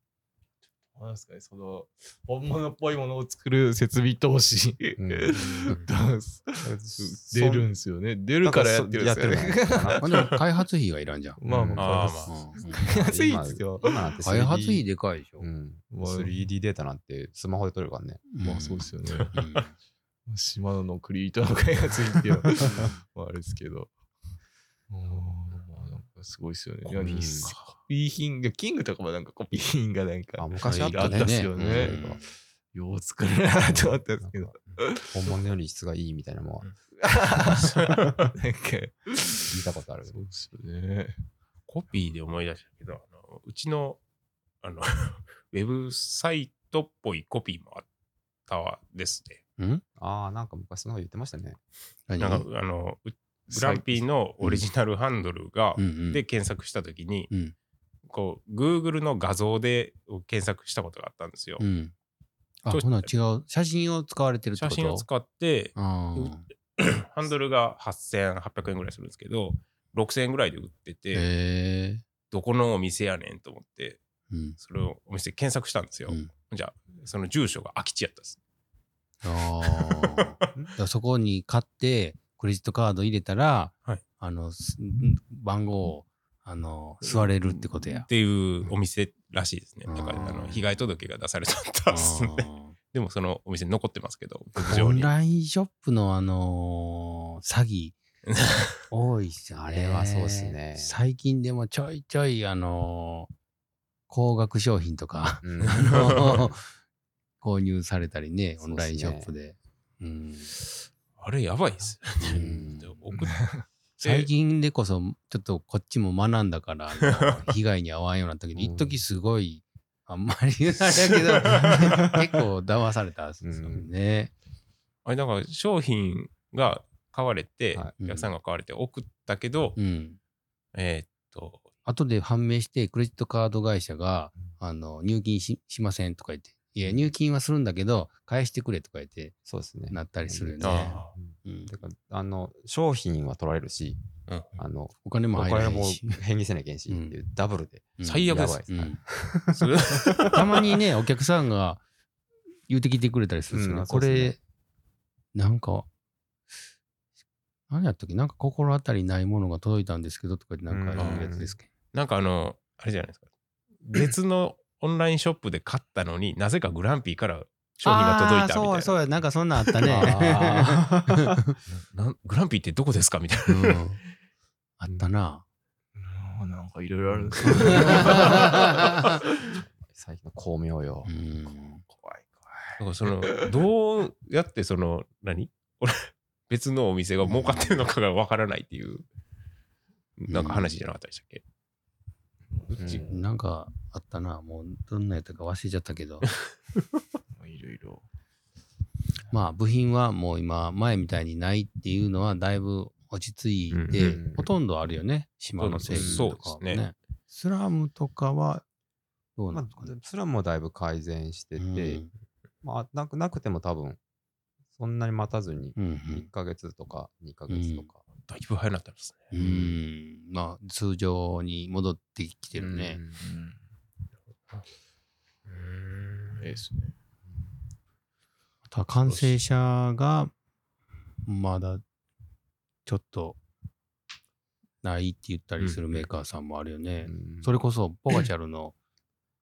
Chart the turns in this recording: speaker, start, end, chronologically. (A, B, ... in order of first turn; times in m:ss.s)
0:01.0-0:10.3 A
0:05.0-0:05.8 B
0:06.6-0:07.7 B
0:08.4-0:10.1 B
0:10.0-0:11.4 C
0:11.4-0:13.9 A
0:11.4-0:12.1 B
0:11.8-0:12.3 D
0:12.3-0:12.8 C
0:12.7-0:14.8 B
0:14.2-0:15.5 C
0:15.4-0:18.3 B
0:15.9-0:16.3 A
0:18.3-0:19.7 C
0:18.4-0:19.4 A
0:20.3-0:23.9 A
0:22.7-0:23.0 B
0:24.9-0:32.1 A
0:26.9-0:27.8 D
0:27.0-0:27.5 B
0:30.4-0:32.2 B
0:30.6-0:32.3 C
0:32.7-0:35.4 A
0:33.6-0:36.7 B
0:37.0-0:41.2 A
0:37.6-0:38.3 D
0:39.5-0:40.2 B
0:41.7-0:44.0 D
0:44.6-0:47.9 D
0:48.5-0:49.4 D
0:49.6-0:49.8 C
0:50.0-0:51.6 B
0:52.1-0:52.5 C
0:52.2-0:57.3 D
0:53.5-0:54.0 A
0:55.8-0:56.2 C
0:58.1-1:01.6 D
1:01.6-1:01.9 C
1:02.6-1:05.1 C
1:02.7-1:03.1 D
1:04.6-1:11.3 D
1:05.8-1:06.5 C
1:11.1-1:12.0 C
1:12.3-1:14.0 D
1:14.3-1:14.6 C
1:14.6-1:18.4 D
1:19.2-1:28.1 C
1:19.7-1:20.2 D
1:27.0-1:35.1 D
1:29.9-1:30.6 C
1:31.9-1:32.8 C
1:34.6-1:38.0 C
1:38.3-1:38.7 D
1:38.9-1:43.3 C
1:39.6-1:41.0 B
1:44.1-1:46.7 C
1:45.4-1:46.5 B
1:45.7-1:46.4 D
1:47.4-1:50.5 C
1:48.6-1:49.3 B
1:51.2-1:53.4 D
1:52.2-1:53.2 B
1:52.2-1:52.7 C
1:53.2-1:54.3 A
1:54.0-2:04.3 C
1:57.1-1:57.4 D
1:58.6-1:59.0 B
2:03.4-2:03.9 B
2:05.0-2:09.8 D
2:08.0-2:08.3 C
2:09.8-2:10.2 C
2:10.7-2:11.7 D
2:11.9-2:19.4 C
2:19.5-2:24.0 B
2:19.9-2:21.8 C
2:20.6-2:21.1 D
2:24.6-2:30.4 B
2:25.0-2:26.2 C
2:26.9-2:27.2 C
2:28.0-2:29.0 C
2:28.0-2:28.6 D
2:29.5-2:30.4 D
2:30.3-2:31.8 C
2:32.7-2:34.4 C
2:33.5-2:34.4 B
2:35.3-2:35.9 C
2:37.7-2:41.7 C
2:40.7-2:41.6 B
2:41.0-2:41.3 D
2:41.9-2:43.3 D
2:43.8-2:48.9 D
2:47.8-2:51.6 C
2:49.8-2:50.3 D
2:49.8-2:51.3 B
2:51.7-2:53.8 D
2:53.5-2:54.0 C
2:54.8-2:55.4 C
2:56.0-2:59.6 A
2:57.3-2:58.4 B
2:57.5-2:59.1 C
2:59.4-3:01.1 B
3:01.1-3:01.8 C
3:01.9-3:03.6 A
3:02.8-3:09.0 D
3:10.2-3:11.4 D
3:10.3-3:10.7 C
3:12.5-3:13.2 A
3:12.8-3:13.1 B
3:12.9-3:16.3 C
3:17.3-3:18.1 A
3:19.3-3:28.6 C
3:23.7-3:24.2 D
3:23.9-3:24.5 B
3:25.6-3:26.8 D
3:25.9-3:26.3 B
3:29.4-3:29.9 C
3:29.5-3:32.0 B
3:31.6-3:32.1 C
3:32.6-3:34.0 B
3:34.8-3:38.0 B
3:35.8-3:36.3 C
3:37.5-3:37.9 C
3:38.3-3:39.3 D
3:39.3-3:43.0 C
3:39.4-3:39.8 B
3:42.6-3:43.2 B
3:43.2-3:43.6 A
3:45.5-3:46.5 D
3:46.4-3:46.9 A
3:48.7-3:50.3 C
3:51.3-3:51.8 C
3:52.9-3:53.4 C
3:54.8-3:58.7 C
3:55.6-3:56.0 D
3:57.0-3:57.5 B